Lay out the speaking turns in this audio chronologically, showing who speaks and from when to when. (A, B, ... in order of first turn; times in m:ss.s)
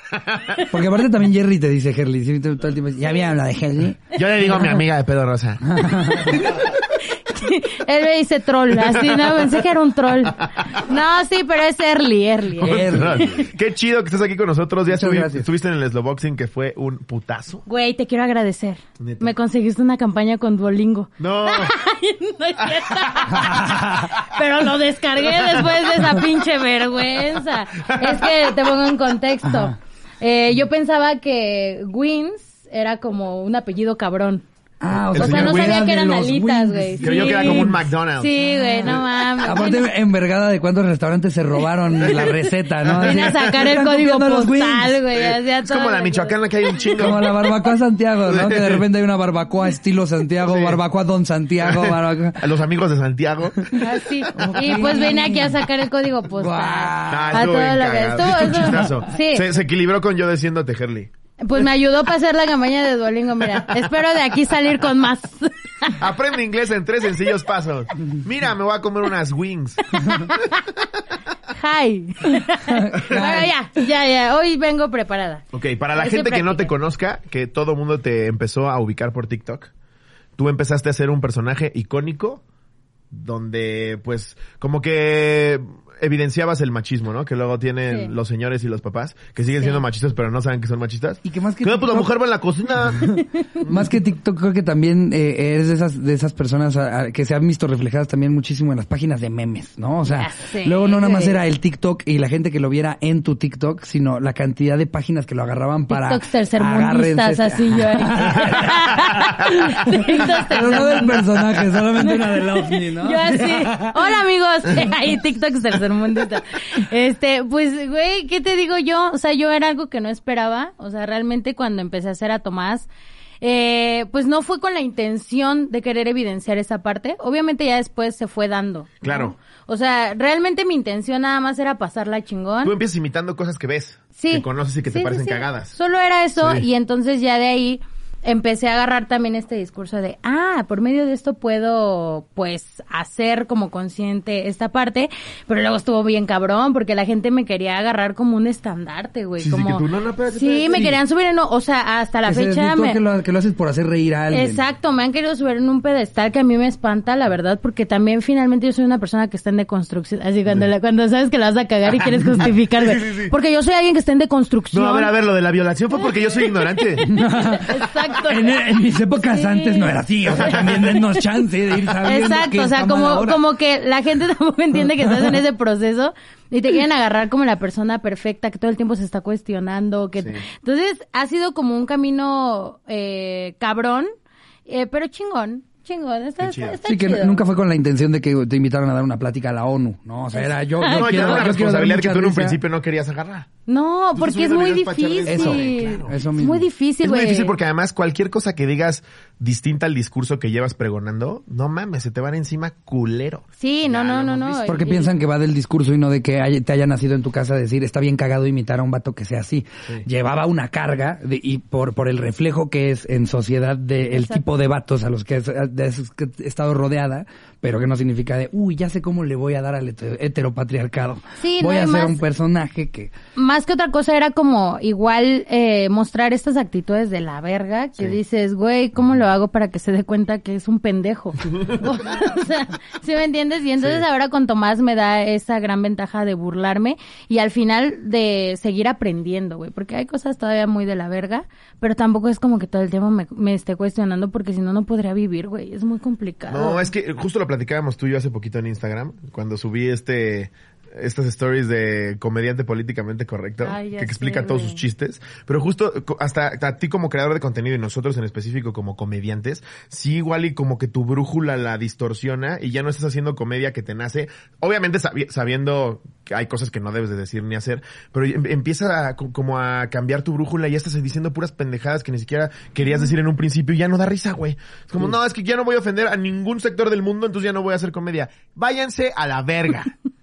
0:00.1-0:00.6 A
0:00.7-0:04.8 B
0:04.1-0:05.6 A
0:05.6-0:06.4 B
0:06.5-0:13.4 C
0:08.7-0:09.6 A
0:10.2-0:10.7 A
0:12.6-0:13.3 B
0:12.6-0:17.6 A
0:14.9-0:15.5 B
0:17.7-0:34.4 C
0:19.0-0:19.3 A
0:21.2-0:21.7 A
0:22.6-0:23.6 A
0:23.4-0:24.1 B
0:25.4-0:25.6 A
0:27.8-0:28.3 A
0:29.4-0:29.7 B
0:34.8-0:37.8 B
0:35.0-0:35.9 A
0:35.1-0:39.9 C
0:37.0-0:38.4 A
0:38.4-0:45.0 B
0:42.0-0:42.5 C
0:42.9-0:43.5 A
0:43.0-0:46.8 C
0:45.1-0:47.4 A
0:46.9-0:52.5 B
0:48.3-0:48.8 A
0:50.4-0:50.8 A
0:51.6-0:54.7 A
0:53.8-0:59.5 C
0:54.3-0:55.7 B
0:56.3-0:57.5 B
0:57.1-1:01.1 A
1:01.4-1:06.0 C
1:03.5-1:03.8 A
1:06.0-1:10.8 A
1:10.1-1:10.6 C
1:11.5-1:16.7 C
1:12.3-1:13.5 B
1:15.5-1:19.7 A
1:20.4-1:22.4 A
1:23.1-1:33.1 A
1:27.9-1:28.1 C
1:29.6-1:29.8 C
1:31.2-1:32.1 B
1:32.9-1:54.2 B
1:33.4-1:33.6 C
1:33.6-1:33.9 A
1:40.1-1:41.4 C
1:45.9-2:02.9 C
2:03.4-2:12.7 C
2:09.0-2:09.4 A
2:12.6-2:15.7 A
2:14.2-2:33.0 C
2:16.4-2:16.7 A
2:29.4-2:31.0 A
2:32.3-2:34.6 B
2:34.3-2:45.1 C
2:42.8-2:43.3 A
2:44.7-2:47.2 A
2:46.0-2:48.6 C
2:47.0-2:53.4 B
2:49.2-2:51.4 C
2:50.3-2:51.0 A
2:52.0-3:04.1 C
3:04.7-3:07.4 C
3:06.4-3:06.8 A
3:06.9-3:12.6 B
3:10.3-3:11.5 C
3:10.9-3:13.5 A
3:13.7-3:17.6 C
3:14.2-3:16.2 A
3:15.3-3:16.7 B
3:17.0-3:24.8 A
3:23.6-3:25.1 C
3:24.7-3:43.1 B
3:34.1-3:34.4 C
3:41.4-3:42.2 C
3:43.4-4:06.9 C
3:53.8-3:54.0 A
4:06.5-4:39.9 A
4:13.6-4:14.8 C